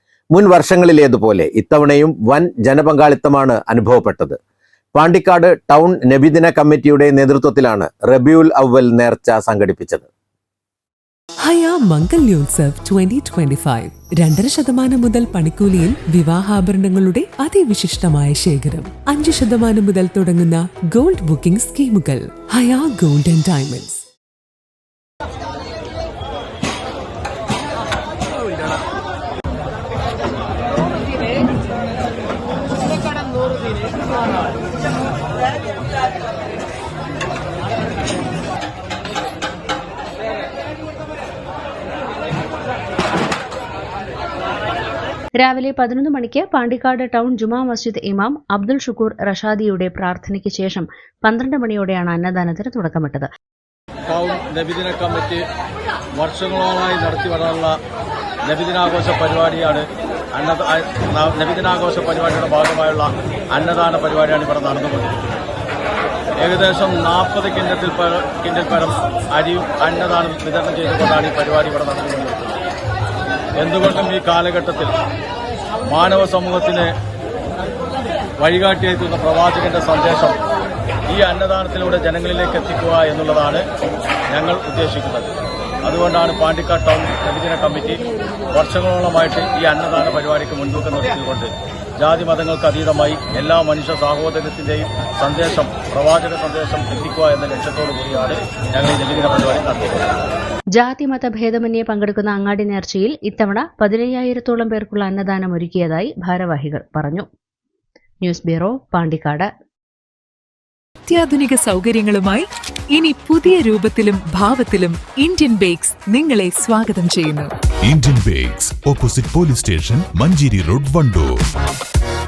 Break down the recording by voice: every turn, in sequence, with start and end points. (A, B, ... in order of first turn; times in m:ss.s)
0:00.3-0:04.4 A
0:04.9-0:10.1 A
0:11.4-0:24.0 B
0:45.4-0:53.3 C
0:54.1-0:55.4 D
0:56.2-0:57.8 D
0:58.4-1:05.4 D
1:06.4-1:12.6 D
1:13.6-1:15.0 D
1:15.9-1:16.9 D
1:18.4-1:20.4 D
1:21.1-1:23.7 D
1:24.3-1:40.2 D
1:40.8-1:47.3 C
1:48.2-1:49.5 C
1:51.1-1:57.5 E
1:57.8-2:01.4 F